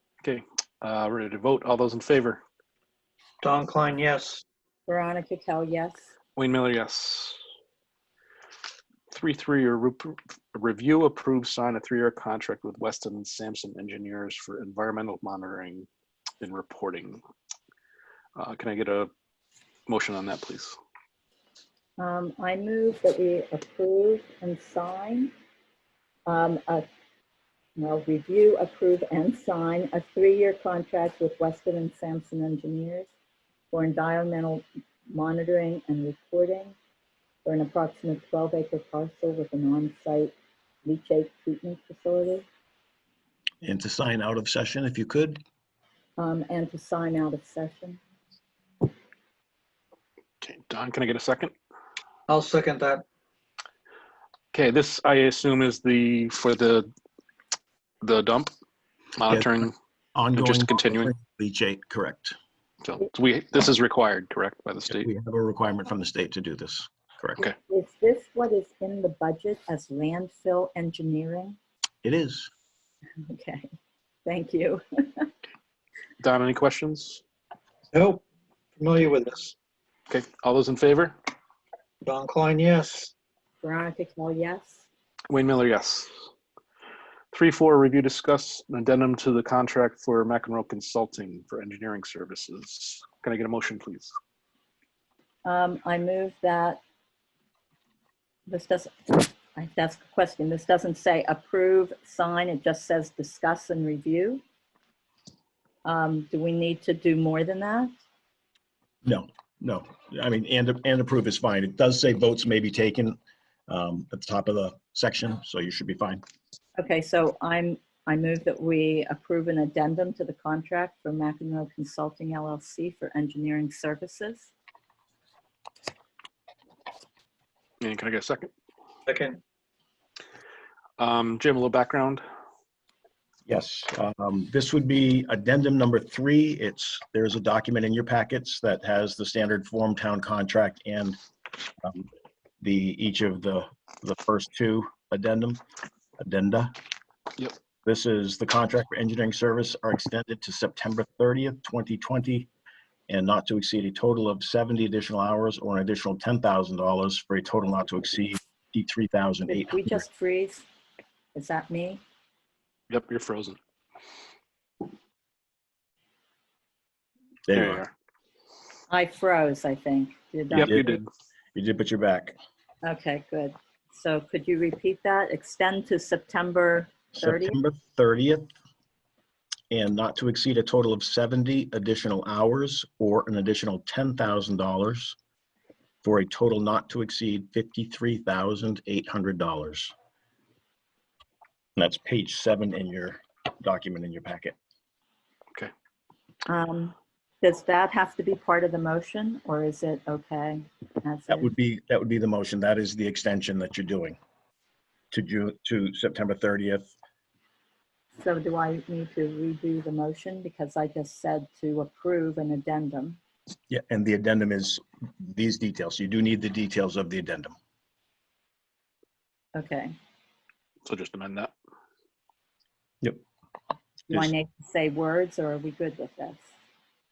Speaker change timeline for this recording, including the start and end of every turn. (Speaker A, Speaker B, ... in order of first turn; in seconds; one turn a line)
Speaker A: 0.2-2.4
Speaker B: 3.4-4.4
Speaker C: 4.9-6.0
Speaker A: 6.3-7.4
Speaker A: 9.1-15.9
Speaker A: 16.4-17.2
Speaker A: 18.4-19.1
Speaker A: 19.9-20.8
Speaker C: 22.0-25.3
Speaker C: 26.3-26.9
Speaker C: 27.8-33.1
Speaker C: 33.7-36.8
Speaker C: 37.4-42.4
Speaker D: 43.6-45.4
Speaker C: 46.2-48.0
Speaker A: 50.4-51.5
Speaker B: 52.3-53.0
Speaker A: 54.5-56.9
Speaker A: 58.0-58.5
Speaker A: 59.2-59.7
Speaker D: 59.3-62.4
Speaker A: 60.3-61.1
Speaker A: 62.8-65.1
Speaker D: 64.9-67.5
Speaker C: 67.4-71.6
Speaker D: 72.0-72.5
Speaker C: 73.2-73.7
Speaker C: 74.2-75.3
Speaker A: 76.2-77.2
Speaker B: 77.9-78.2
Speaker B: 78.8-79.5
Speaker A: 80.1-81.2
Speaker B: 82.0-83.1
Speaker C: 83.6-84.8
Speaker A: 85.3-86.1
Speaker A: 87.3-94.1
Speaker C: 95.4-96.8
Speaker C: 98.5-104.4
Speaker C: 105.8-107.9
Speaker D: 109.0-113.2
Speaker D: 113.7-116.2
Speaker C: 116.8-124.5
Speaker A: 127.8-128.5
Speaker B: 129.1-129.4
Speaker A: 131.0-132.2
Speaker D: 133.5-141.2
Speaker D: 141.8-142.1
Speaker D: 142.6-145.6
Speaker D: 146.2-146.7
Speaker D: 147.8-152.5
Speaker D: 153.1-160.0
Speaker C: 159.5-160.6
Speaker C: 161.3-162.0
Speaker A: 162.9-163.6
Speaker D: 167.5-167.8
Speaker A: 167.5-167.9
Speaker C: 168.9-170.9
Speaker D: 170.5-171.0
Speaker A: 170.5-171.0
Speaker D: 171.5-172.3
Speaker C: 172.8-177.6
Speaker D: 177.1-178.5
Speaker D: 179.7-185.2
Speaker D: 186.0-189.9
Speaker D: 191.8-194.5
Speaker C: 196.5-201.5
Speaker D: 201.3-204.2
Speaker D: 205.1-206.9
Speaker C: 208.2-213.2
Speaker D: 213.7-217.5
Speaker C: 219.5-219.9
Speaker A: 220.8-221.5
Speaker C: 224.1-226.5